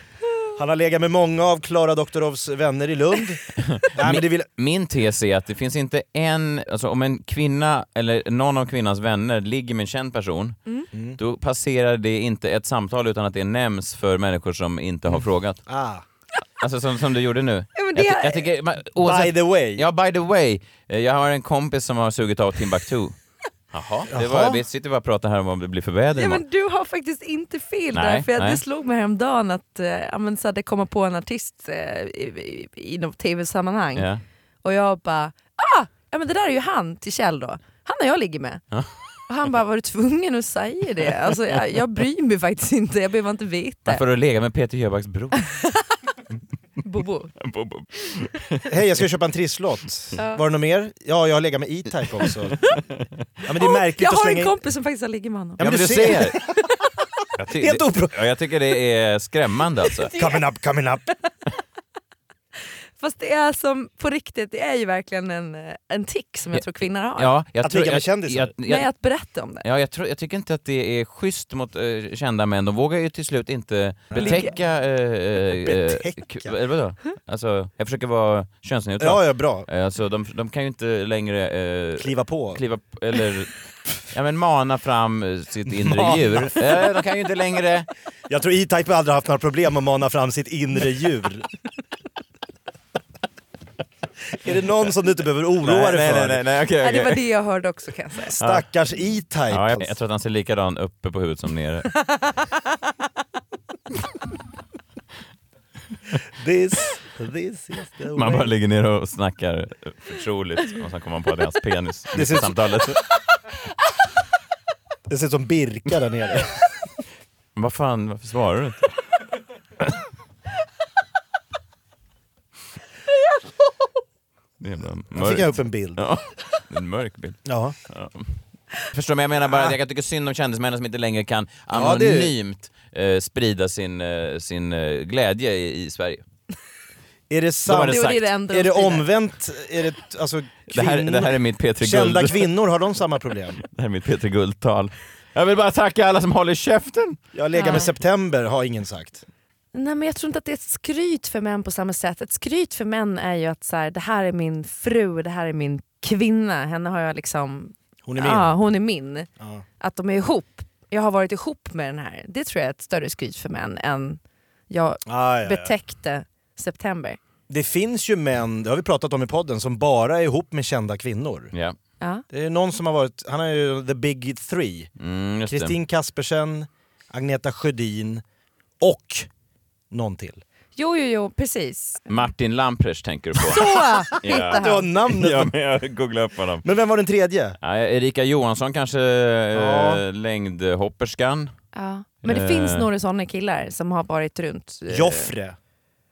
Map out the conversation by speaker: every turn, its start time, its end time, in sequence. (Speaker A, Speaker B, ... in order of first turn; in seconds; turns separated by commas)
Speaker A: 0.6-4.5, Speaker B: 3.7-10.6, Speaker A: 10.9-11.2, Speaker B: 11.2-15.6, Speaker A: 15.1-16.0, Speaker B: 16.6-23.2, Speaker C: 17.8-18.4, Speaker A: 19.0-19.9, Speaker B: 23.7-26.4, Speaker A: 24.1-24.6, Speaker C: 26.2-34.1, Speaker B: 27.9-28.6, Speaker B: 34.0-34.2, Speaker C: 34.6-38.6, Speaker C: 39.3-44.0, Speaker B: 43.9-45.4, Speaker C: 45.4-45.9, Speaker C: 46.8-47.3, Speaker B: 47.4-48.7, Speaker A: 48.7-52.7, Speaker C: 50.2-50.4, Speaker A: 53.4-54.5, Speaker C: 53.6-56.4, Speaker A: 55.6-56.5, Speaker B: 55.6-56.4, Speaker B: 57.4-60.1, Speaker A: 57.6-58.2, Speaker A: 60.1-61.1, Speaker C: 63.0-67.3, Speaker B: 67.2-68.9, Speaker A: 67.6-68.5, Speaker C: 68.7-69.6, Speaker B: 69.6-83.5, Speaker A: 74.1-74.6, Speaker C: 74.2-74.5, Speaker A: 75.5-76.6, Speaker A: 79.0-79.7, Speaker A: 82.0-82.6, Speaker B: 84.1-87.9, Speaker A: 85.7-86.7, Speaker A: 88.3-91.5, Speaker A: 94.3-96.4, Speaker B: 95.6-97.2, Speaker C: 96.8-98.3, Speaker A: 98.3-99.9, Speaker B: 99.5-102.0, Speaker A: 106.3-108.5, Speaker B: 108.1-113.0, Speaker A: 112.1-113.0, Speaker A: 115.1-116.6, Speaker B: 117.6-119.0, Speaker B: 124.6-136.2, Speaker A: 125.1-126.1, Speaker A: 127.5-127.8, Speaker A: 131.7-132.3, Speaker A: 137.3-143.6, Speaker B: 137.7-138.3, Speaker C: 137.9-139.1, Speaker B: 140.7-142.5, Speaker B: 143.7-147.2, Speaker A: 147.3-149.2, Speaker C: 147.6-147.9, Speaker C: 149.7-159.3, Speaker A: 158.0-158.5, Speaker A: 159.4-159.6, Speaker C: 159.8-167.2, Speaker A: 165.1-165.7, Speaker A: 167.5-171.5, Speaker A: 172.3-174.9, Speaker B: 175.0-175.7, Speaker A: 175.5-178.2, Speaker A: 178.8-179.3, Speaker A: 179.9-180.4, Speaker C: 180.8-182.1, Speaker B: 182.1-186.7, Speaker C: 183.5-184.8, Speaker A: 184.3-185.5, Speaker A: 186.6-187.6, Speaker B: 187.6-191.5, Speaker A: 189.5-190.0, Speaker C: 191.7-195.3, Speaker B: 192.2-192.9, Speaker A: 194.9-195.6